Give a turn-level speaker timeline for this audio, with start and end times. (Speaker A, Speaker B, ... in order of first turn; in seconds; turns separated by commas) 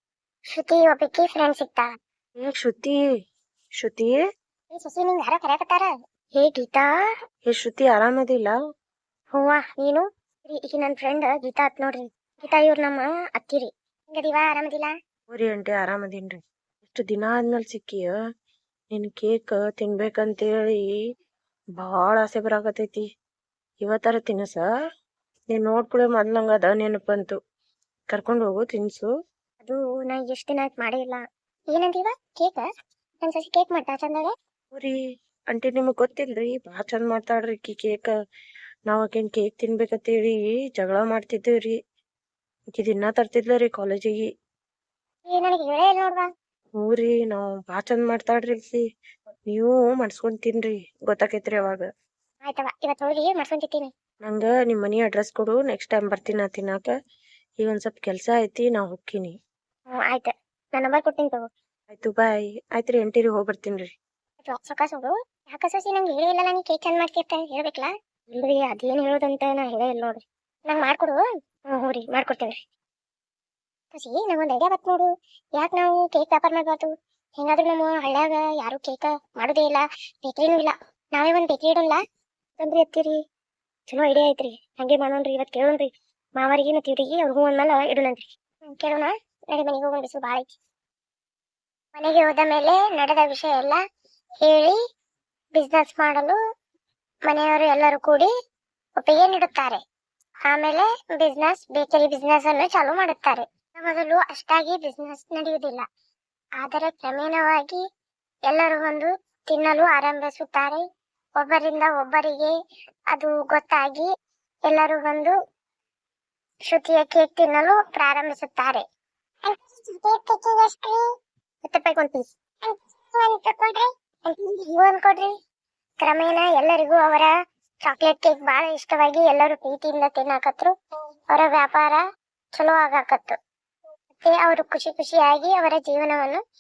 Speaker A: 0.5-1.9, Speaker B: 2.4-3.0, Speaker B: 3.8-4.2, Speaker A: 4.7-6.9, Speaker B: 7.5-8.5, Speaker A: 9.3-14.9, Speaker B: 15.3-18.1, Speaker B: 18.9-20.9, Speaker B: 21.8-23.1, Speaker B: 23.8-24.7, Speaker B: 25.5-27.4, Speaker B: 28.1-29.1, Speaker A: 29.6-32.7, Speaker A: 33.2-34.3, Speaker B: 35.5-38.1, Speaker B: 38.9-41.8, Speaker B: 42.8-44.3, Speaker A: 45.3-46.3, Speaker B: 46.8-48.8, Speaker B: 49.5-51.9, Speaker A: 52.5-53.9, Speaker B: 54.3-56.9, Speaker B: 57.6-59.3, Speaker A: 60.0-61.5, Speaker B: 61.9-63.9, Speaker A: 64.5-71.2, Speaker A: 71.7-72.6, Speaker A: 73.9-82.0, Speaker A: 82.6-83.2, Speaker A: 83.9-90.5, Speaker A: 92.0-93.8, Speaker A: 94.4-94.8, Speaker A: 95.5-96.4, Speaker A: 97.3-98.3, Speaker A: 99.0-99.8, Speaker A: 100.5-105.8, Speaker A: 106.6-107.8, Speaker A: 108.5-110.8, Speaker A: 111.4-112.5, Speaker A: 113.1-114.1, Speaker A: 114.7-115.3, Speaker A: 116.7-118.8, Speaker A: 119.5-121.0, Speaker A: 121.7-125.3, Speaker A: 126.0-127.3, Speaker A: 127.8-130.7, Speaker A: 131.3-132.0, Speaker A: 132.5-133.4, Speaker A: 134.2-136.4